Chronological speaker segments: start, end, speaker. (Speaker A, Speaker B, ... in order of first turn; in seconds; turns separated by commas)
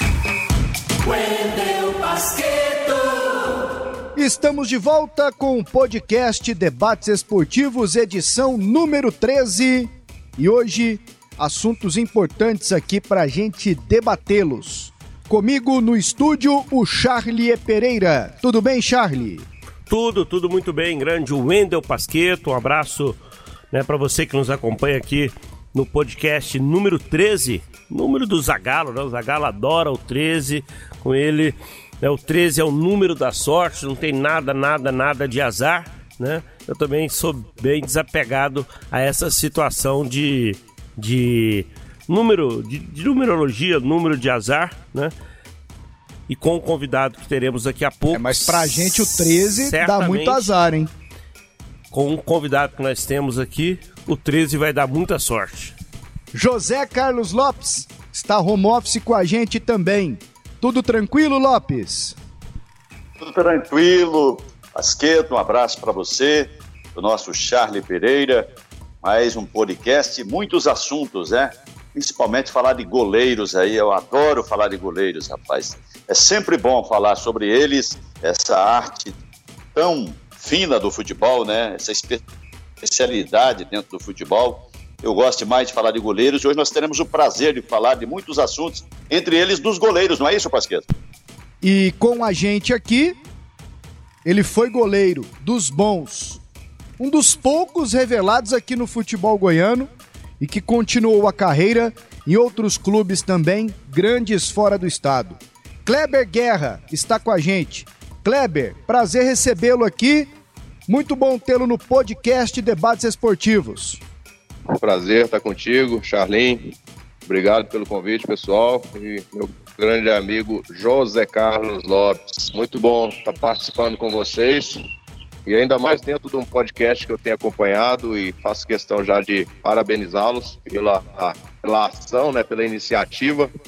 Speaker A: 1.1-3.2, Speaker B: 4.2-19.4, Speaker C: 19.9-23.2, Speaker C: 23.7-45.1, Speaker C: 46.3-50.5, Speaker B: 48.1-50.9, Speaker C: 51.9-55.7, Speaker B: 56.3-62.1, Speaker D: 63.2-68.5, Speaker D: 69.0-79.2, Speaker D: 79.8-82.2, Speaker D: 82.8-90.8, Speaker B: 91.6-93.2, Speaker B: 94.2-96.4, Speaker B: 97.0-110.3, Speaker B: 110.9-114.0, Speaker E: 114.8-116.7, Speaker E: 117.2-124.8, Speaker E: 125.5-133.5